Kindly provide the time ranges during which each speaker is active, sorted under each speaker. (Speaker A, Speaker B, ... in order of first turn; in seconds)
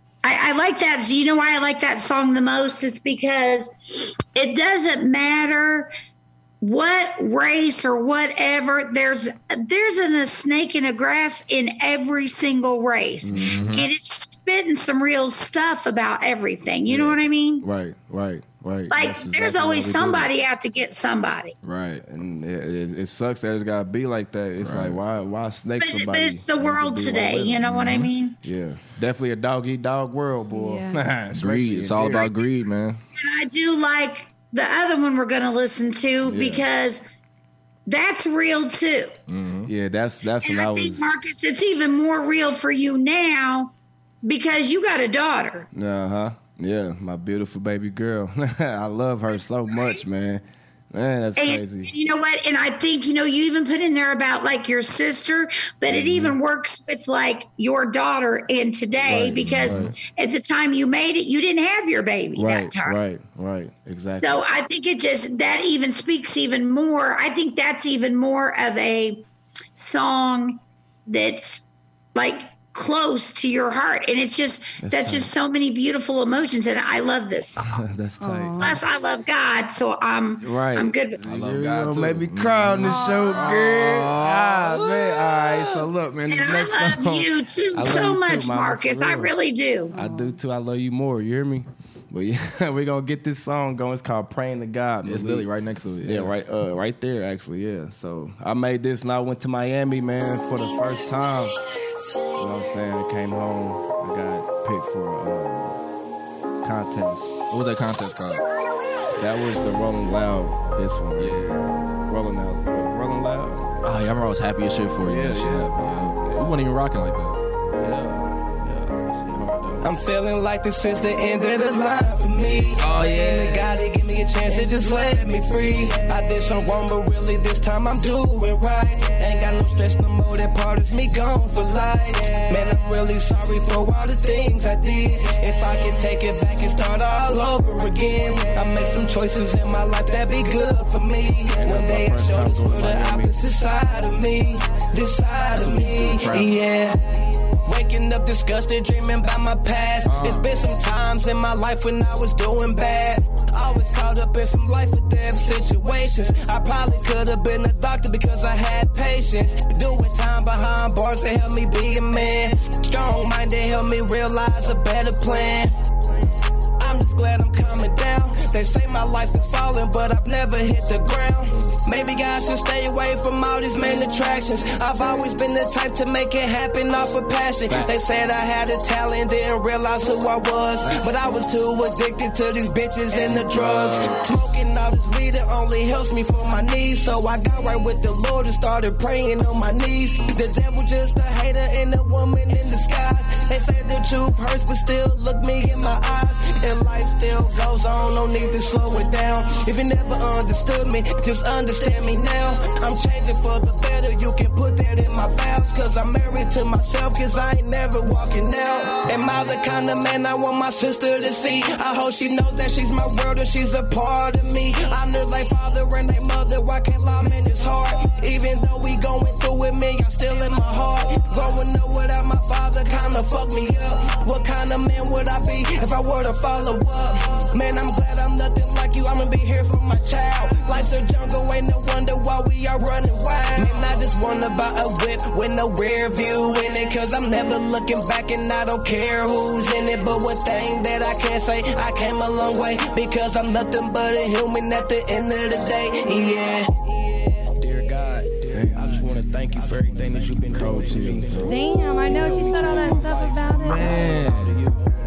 Speaker A: 0.2-5.9, 6.6-17.6, 18.9-21.6, 25.8-28.4, 33.1-37.0, 37.9-39.1, 40.4-43.7, 44.2-45.7, 51.4-63.0, 64.2-69.2, 69.7-77.8, 78.6-81.2, 86.3-89.9
Speaker B: 13.2-13.6, 16.9-20.3, 22.0-32.3, 36.2-36.6, 39.7-41.1, 45.7-51.9, 55.9-56.4, 59.0-59.9, 62.3-64.4, 74.8-75.3, 77.6-78.8, 80.4-89.3, 89.9-95.5, 96.0-101.5, 102.3-105.8, 106.6-107.5, 109.2-113.8, 115.0-116.6, 117.7-119.9, 141.6-143.3, 183.1-184.2, 248.5-249.1, 250.0-251.6, 252.8-253.1, 253.8-254.5
Speaker C: 13.3-13.9, 21.6-22.0, 24.6-25.0, 27.7-28.1, 31.3-33.0, 39.3-39.7, 59.4-59.9, 81.2-85.9, 95.0-96.3, 107.5-108.4, 111.2-111.6, 113.8-117.4, 122.8-123.7, 145.5-146.6, 150.0-150.5, 250.9-251.3, 253.6-254.6
Speaker D: 30.5-31.0, 78.2-78.8, 82.8-83.5, 89.9-90.4, 251.4-254.1
Speaker E: 119.8-147.1, 147.6-165.7, 166.8-248.5, 249.1-251.3